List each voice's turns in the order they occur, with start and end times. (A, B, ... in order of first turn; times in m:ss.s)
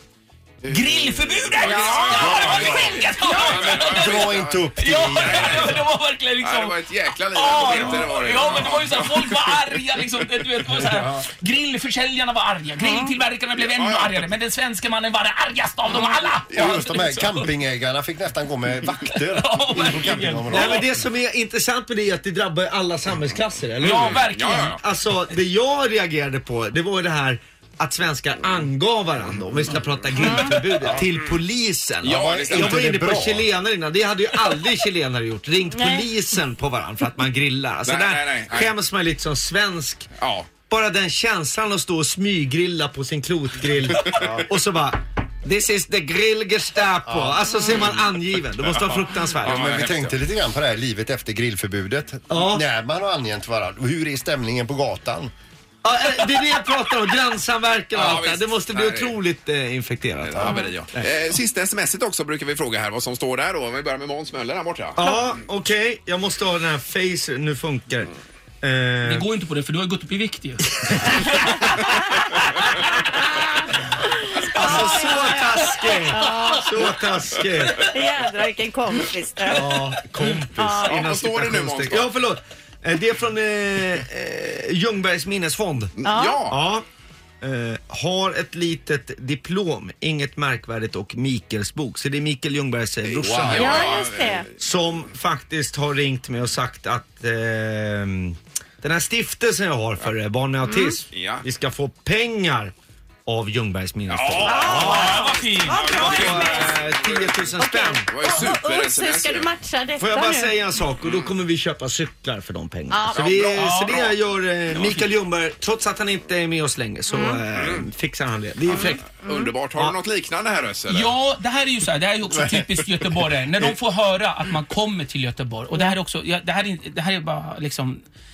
0:00.6-0:05.8 A
0:00.7-0:06.8 B
0:02.1-0:05.8 C
0:06.4-0:09.6 A
0:07.3-0:17.5 B
0:13.7-0:14.2 A
0:16.5-0:20.9 C
0:19.1-0:20.8 B
0:20.5-0:24.2 D
0:23.8-0:24.8 B
0:23.8-0:24.8 A
0:24.8-0:40.1 D
0:32.0-0:32.9 A
0:32.1-0:33.5 C
0:35.7-0:36.1 E
0:37.8-0:38.7 A
0:40.2-0:40.5 A
0:40.7-0:49.7 D
0:44.2-0:44.4 C
0:47.1-0:47.4 C
0:49.4-0:50.2 A
0:49.4-0:55.3 C
0:52.3-0:52.6 D
0:55.8-1:01.1 D
0:57.9-0:59.1 A
1:00.2-1:05.0 A
1:05.0-1:08.1 D
1:08.6-1:09.3 D
1:09.0-1:11.6 B
1:10.8-1:11.3 D
1:14.2-1:16.9 E
1:14.5-1:17.9 D
1:17.8-1:20.0 E
1:19.5-1:26.8 D
1:20.6-1:21.0 E
1:20.8-1:22.1 A
1:26.0-1:26.6 A
1:26.0-1:26.4 E
1:27.4-1:34.0 D
1:33.0-1:34.5 A
1:33.5-1:34.5 E
1:34.6-1:42.7 D
1:40.7-1:41.0 E
1:41.1-1:41.4 A
1:43.2-1:48.4 D
1:44.1-1:47.6 A
1:44.4-1:46.8 E
1:44.6-1:46.3 B
1:47.6-1:50.6 E
1:48.1-1:49.5 A
1:50.0-1:59.2 D
1:51.0-1:51.3 A
1:52.9-1:53.4 E
1:53.1-1:54.1 A
1:53.6-1:53.9 B
1:58.7-2:01.1 A
2:00.9-2:08.0 B